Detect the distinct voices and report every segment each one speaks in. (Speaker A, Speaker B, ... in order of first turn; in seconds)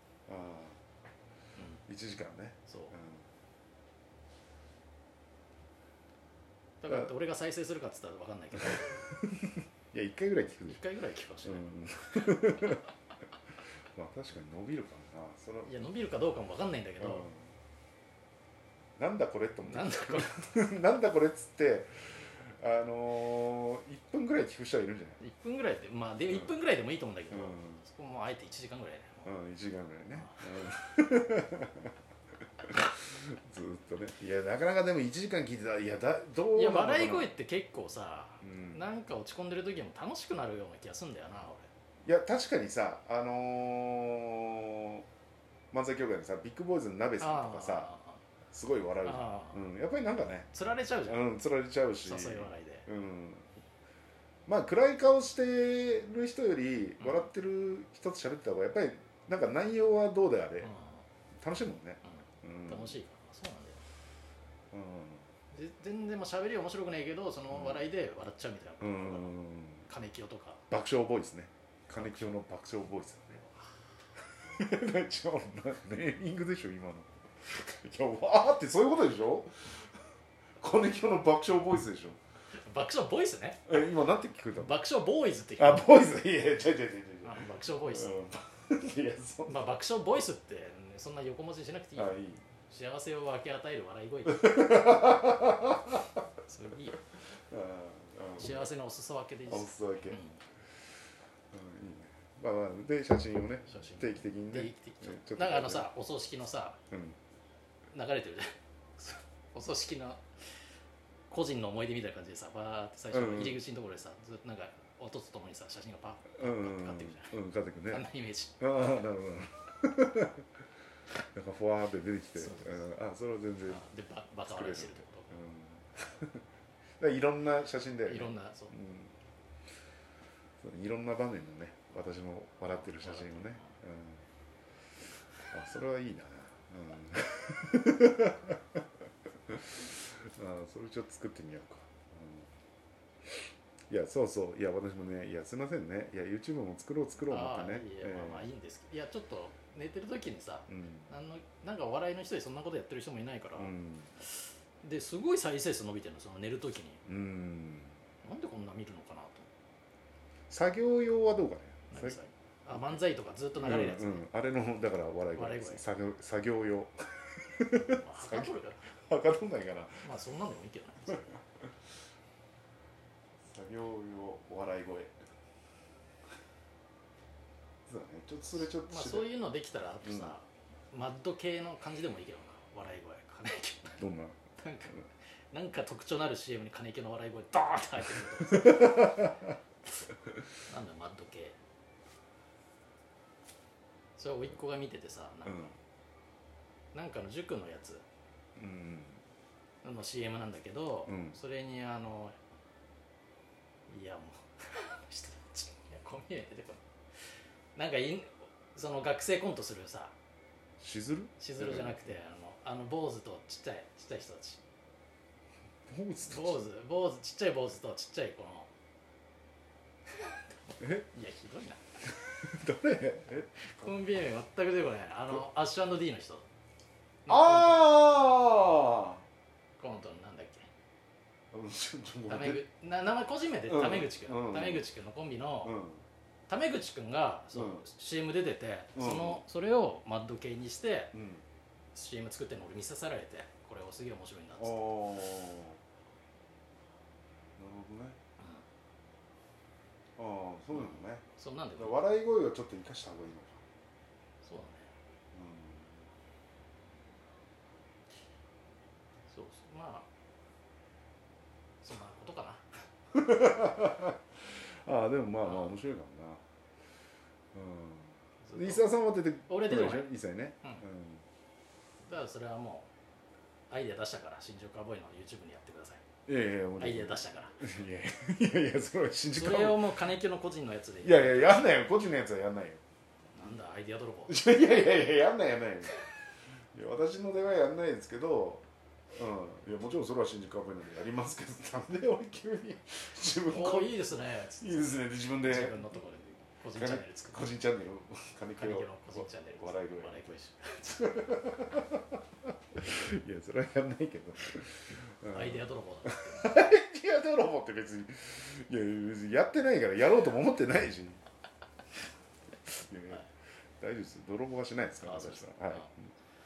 Speaker A: 0.3-0.8, 1.9-3.2, 9.9-10.8, 11.4-12.8, 13.9-15.8, 17.0-17.4, 19.0-25.2, 27.3-27.8, 29.2-31.9, 32.7-37.4, 38.4-38.8, 42.0-45.1, 45.7-47.9, 48.5-50.5, 51.1-53.5, 54.5-60.7, 61.4-63.0, 64.7-65.3, 67.5-67.8, 68.8-69.9, 70.7-73.5, 74.6-79.7, 80.6-82.2, 83.7-84.8, 85.6-89.7, 92.0-92.4, 94.3-96.0, 97.5-98.7, 99.5-100.2, 101.5-105.9, 106.9-107.2, 113.1-113.6, 116.4-118.1, 118.6-120.4, 121.3-123.8, 124.5-126.4, 127.0-129.1, 130.6-134.2, 135.5-138.8, 139.5-142.5, 143.3-148.5, 150.7-151.1, 153.6-154.1, 157.1-158.0, 160.5-162.2, 163.6-170.1, 173.5-175.3, 177.9-179.3, 180.0-180.3, 184.0-184.4, 188.5-189.4, 198.6-199.2, 201.1-201.4, 210.8-212.1, 215.9-216.6, 222.4-223.5, 227.3-229.2, 231.5-232.6, 233.7-234.8, 235.6-236.0, 237.5-237.8, 238.9-239.4, 241.1-241.4, 244.6-245.8, 247.6-248.2, 250.2-251.2, 251.8-253.6, 255.3-256.0, 263.1-266.4, 267.5-271.2, 276.3-280.0, 281.0-282.8, 284.3-286.0, 286.7-294.1, 294.6-295.9, 296.7-300.2, 300.9-302.0, 302.8-311.2, 312.7-313.3, 313.8-316.0
Speaker B: 2.7-2.9, 6.8-9.1, 10.7-11.7, 15.6-17.3, 19.6-20.5, 25.2-29.3, 30.1-30.7, 36.5-41.7, 47.2-48.2, 49.0-49.6, 50.5-51.2, 52.0-52.9, 60.6-61.0, 62.1-63.8, 65.5-70.6, 72.0-72.2, 82.7-83.7, 84.6-85.9, 87.2-88.2, 89.5-92.2, 92.7-95.0, 96.5-97.0, 98.4-100.4, 103.7-106.8, 107.9-110.2, 111.3-117.4, 117.9-119.0, 122.4-122.8, 123.7-125.4, 128.1-128.7, 132.8-133.8, 147.3-153.7, 154.8-157.0, 158.2-159.5, 161.9-164.3, 165.3-165.8, 167.8-168.9, 170.0-171.3, 178.8-184.0, 184.6-189.3, 190.7-191.6, 194.2-195.8, 196.9-198.0, 199.8-202.4, 203.9-206.8, 207.8-210.1, 211.4-214.6, 216.2-218.7, 220.2-222.1, 223.6-226.4, 227.3-228.1, 229.8-230.7, 232.3-235.8, 236.5-241.1, 241.9-245.2, 250.8-252.1, 254.4-254.9, 259.3-260.1, 261.8-262.7, 265.4-265.8, 268.5-268.9, 269.5-270.8, 272.1-272.9, 273.7-276.0, 276.8-277.6, 279.3-281.8, 283.4-284.4, 293.4-297.5, 298.6-301.3, 305.3-306.7, 315.0-315.9